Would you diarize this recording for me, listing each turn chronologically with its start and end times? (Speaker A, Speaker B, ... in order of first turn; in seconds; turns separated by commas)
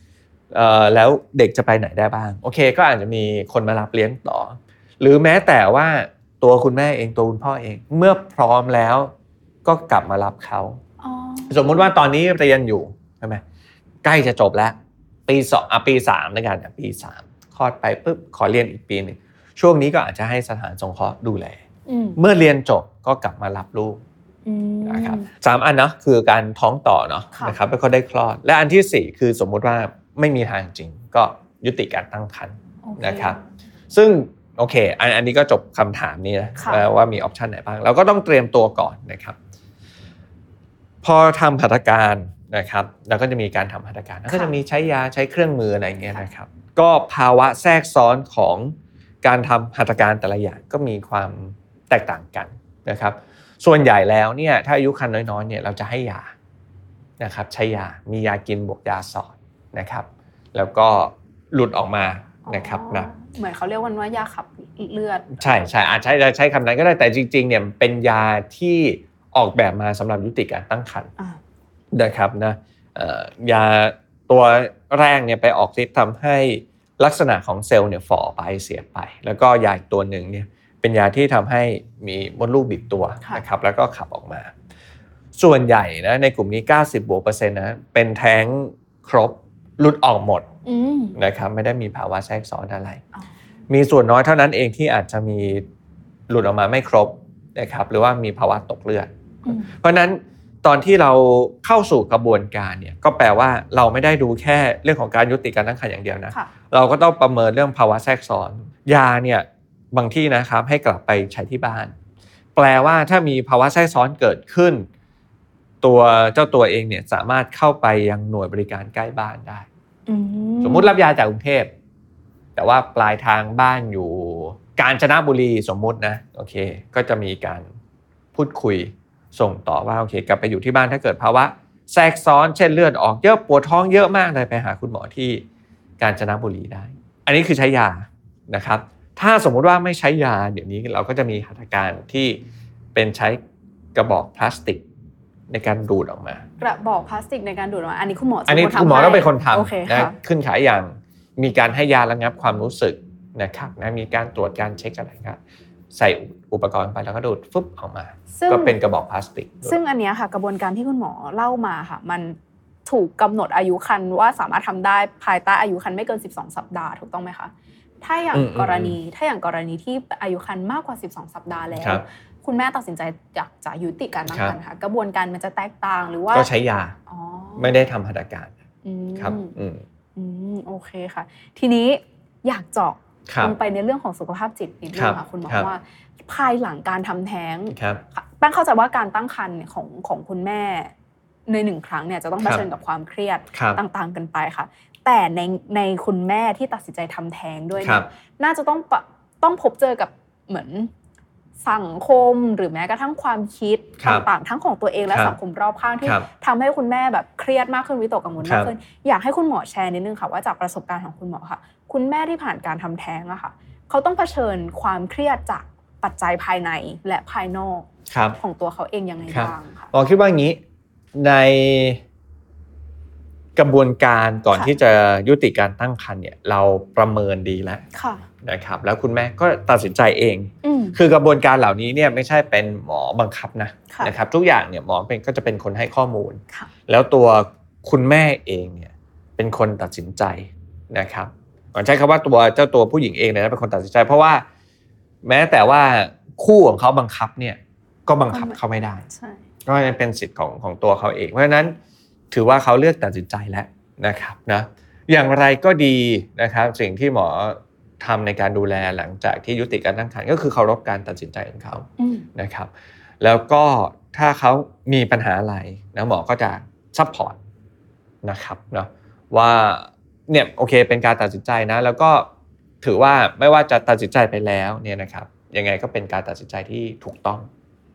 Speaker A: 0.5-9.1, Speaker A: 9.7-10.8, Speaker B: 11.0-11.9, Speaker A: 11.5-13.4, Speaker A: 14.0-14.8, Speaker A: 15.3-21.6, Speaker B: 21.9-22.2, Speaker A: 22.2-24.0, Speaker B: 24.5-25.3, Speaker A: 24.8-33.4, Speaker B: 32.8-33.4, Speaker A: 33.9-39.4, Speaker B: 36.6-36.8, Speaker A: 41.0-56.3, Speaker B: 44.3-44.5, Speaker A: 57.2-63.1, Speaker B: 62.5-65.7, Speaker A: 65.4-71.1, Speaker A: 71.9-84.5, Speaker A: 85.4-90.5, Speaker B: 90.7-91.2, Speaker A: 91.2-93.0, Speaker A: 93.7-95.7, Speaker A: 96.3-111.9, Speaker B: 99.5-99.7, Speaker A: 112.6-114.9, Speaker A: 115.8-119.7, Speaker B: 120.1-120.9, Speaker A: 120.6-121.7, Speaker A: 122.6-127.7, Speaker A: 128.3-135.4, Speaker A: 136.0-142.4, Speaker A: 142.9-143.4, Speaker A: 143.9-144.8, Speaker A: 145.5-146.4, Speaker B: 146.6-150.2, Speaker A: 148.5-155.4, Speaker A: 155.9-159.8, Speaker B: 158.3-158.8, Speaker B: 159.6-176.5, Speaker A: 168.3-169.0, Speaker A: 171.8-172.0, Speaker A: 174.3-174.6, Speaker A: 176.3-177.0, Speaker B: 177.1-177.9, Speaker A: 177.6-178.5, Speaker B: 178.8-179.6, Speaker A: 179.2-179.8, Speaker B: 180.2-190.9, Speaker A: 183.3-183.6, Speaker A: 184.9-185.7, Speaker A: 187.7-188.0, Speaker B: 191.5-200.9, Speaker A: 192.4-192.7, Speaker A: 193.5-193.8, Speaker A: 197.8-198.1, Speaker B: 201.6-219.9, Speaker A: 204.0-204.3, Speaker A: 208.4-208.7, Speaker A: 218.1-218.4, Speaker A: 219.3-220.6, Speaker A: 221.1-222.0, Speaker A: 223.6-227.8, Speaker B: 227.9-228.2, Speaker A: 228.4-244.4, Speaker B: 230.6-231.0, Speaker A: 245.2-249.1, Speaker B: 248.3-249.4, Speaker A: 249.7-251.8, Speaker A: 252.3-262.7, Speaker B: 262.0-262.3, Speaker A: 263.2-267.4, Speaker A: 268.2-272.3, Speaker A: 272.8-277.5